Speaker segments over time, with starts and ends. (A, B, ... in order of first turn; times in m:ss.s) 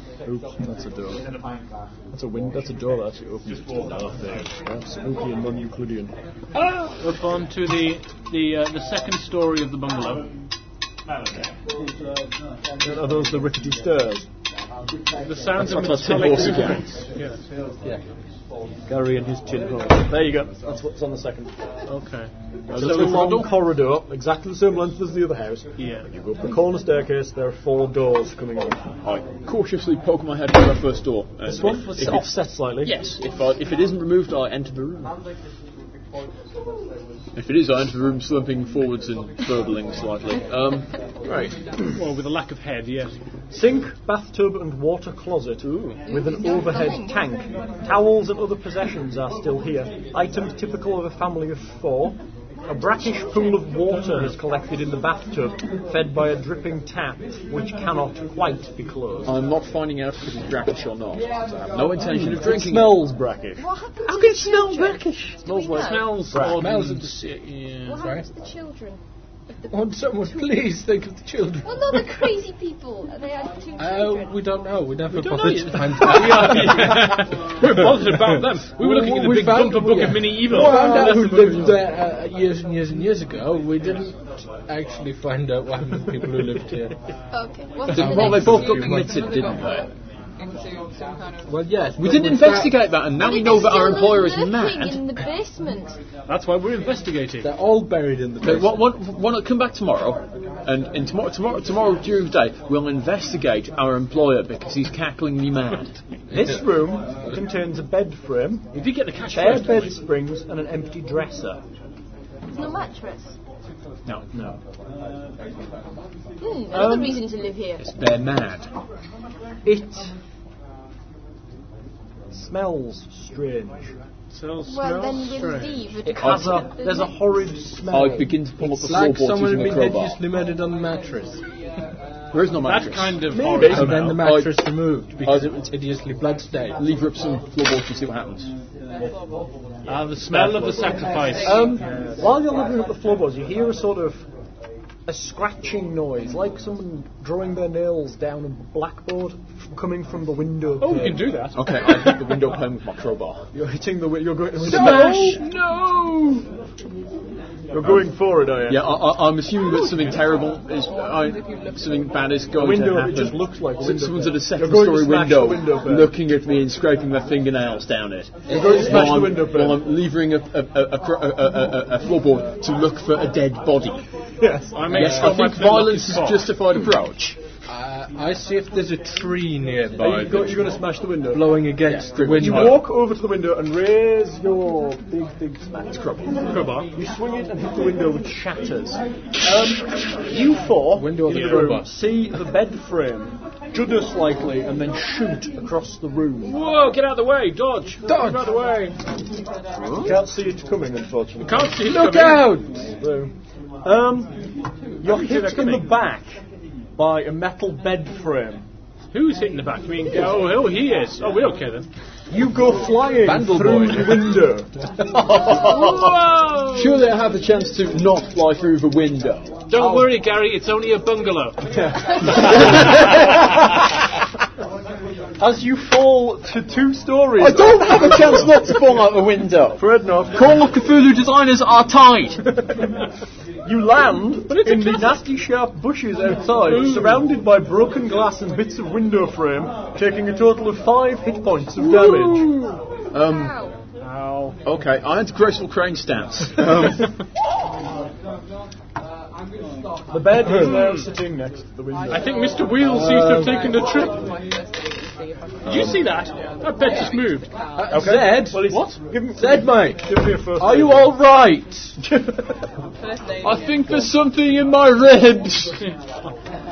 0:00.2-0:01.3 A
0:02.1-0:06.1 A
0:06.6-0:10.2 B
0:12.8-0:14.2 A
0:15.2-0:17.4 B
0:15.6-0:16.9 C
0:18.9-0:21.5 A
0:21.9-0:23.3 B
0:22.7-0:23.6 C
0:22.7-0:28.8 A
0:25.8-0:26.0 B
0:29.0-0:35.2 C
0:31.4-0:33.0 A
0:37.3-0:41.6 C
0:41.9-0:43.2 B
0:43.5-0:59.3 A
0:45.6-0:46.0 C
0:46.0-0:47.3 D
0:59.2-1:03.1 C
1:02.0-1:06.6 A
1:03.6-1:06.3 D
1:04.1-1:04.8 C
1:05.7-1:08.0 B
1:06.5-1:07.3 E
1:07.8-1:09.0 D
1:07.9-1:08.2 E
1:09.6-1:10.6 D
1:09.7-1:12.1 E
1:11.6-1:14.5 D
1:13.8-1:17.0 E
1:15.1-1:21.7 B
1:17.6-1:26.9 E
1:20.5-1:21.7 A
1:27.3-1:28.6 D
1:27.9-1:29.9 C
1:27.9-1:29.2 E
1:28.4-1:31.5 F
1:31.5-1:32.8 E
1:32.0-1:35.0 C
1:33.2-1:36.0 D
1:36.3-1:37.5 B
1:37.4-1:38.8 E
1:38.4-1:45.9 C
1:46.3-1:46.6 E
1:46.3-1:48.7 A
1:48.7-1:50.0 B
1:49.2-1:51.6 A
1:52.5-1:53.4 D
1:54.3-1:54.6 A
1:56.4-1:57.8 D
1:56.7-1:57.2 A
1:57.8-1:58.7 C
1:59.6-2:00.1 A
2:02.3-2:03.9 A
2:04.3-2:05.8 B
2:04.6-2:07.1 D
2:06.0-2:08.3 A
2:06.2-2:06.6 C
2:07.9-2:10.2 C
2:08.6-2:11.4 E
2:12.3-2:15.7 C
2:12.6-2:14.2 B
2:13.3-2:14.2 A
2:13.6-2:16.8 E
2:16.8-2:18.5 C
2:18.9-2:19.5 F
2:19.8-2:22.0 B
2:20.2-2:24.2 A
2:21.0-2:21.9 F
2:25.0-2:31.5 A
2:30.8-2:32.3 B
2:31.5-2:33.5 C
2:33.5-2:35.4 A
2:34.6-2:36.5 B
2:34.6-2:35.4 E
2:37.7-2:38.9 A
2:38.6-2:54.0 C
2:41.0-2:42.0 F
2:42.5-2:46.2 A
2:48.5-2:49.9 A
2:48.5-2:49.0 E
2:54.4-2:55.0 A
2:54.7-2:56.5 B
2:54.9-2:57.4 C
2:54.9-2:55.4 E
2:57.7-3:00.7 E
3:00.0-3:01.6 A
3:00.1-3:00.5 C
3:01.3-3:02.8 E
3:01.8-3:02.8 C
3:02.2-3:06.1 A
3:05.9-3:06.3 C
3:06.5-3:06.9 B
3:06.9-3:16.6 A
3:11.0-3:11.9 E
3:11.3-3:11.7 B
3:16.4-3:18.9 B
3:18.0-3:18.5 E
3:19.8-3:20.2 C
3:20.0-3:21.7 A
3:21.4-3:22.6 B
3:21.8-3:22.9 E
3:23.0-3:23.3 A
3:23.8-3:24.4 A
3:25.0-3:26.4 A
3:25.0-3:25.9 B
3:27.0-3:28.6 A
3:29.1-3:31.9 B
3:32.3-3:34.8 A
3:33.2-3:34.4 E
3:35.2-3:36.2 C
3:35.5-3:37.0 B
3:36.7-3:39.5 C
3:39.7-3:42.7 B
3:39.8-3:40.1 A
3:41.7-3:43.0 A
3:45.4-3:48.8 A
3:47.4-3:52.4 C
3:49.8-3:50.5 A
3:53.6-4:02.6 A
3:54.5-3:55.2 B
3:56.4-3:57.3 B
4:01.8-4:02.8 B
4:03.1-4:03.6 C
4:03.2-4:03.7 D
4:04.0-4:04.6 B
4:04.6-4:07.0 C
4:10.1-4:12.4 A
4:10.5-4:11.1 B
4:12.0-4:18.1 F
4:12.1-4:14.3 B
4:12.9-4:13.6 E
4:15.6-4:17.5 B
4:15.7-4:16.0 C
4:17.7-4:21.2 E
4:17.9-4:21.2 A
4:18.7-4:19.0 B
4:20.6-4:22.0 C
4:22.0-4:22.6 A
4:23.0-4:24.1 F
4:23.4-4:25.8 C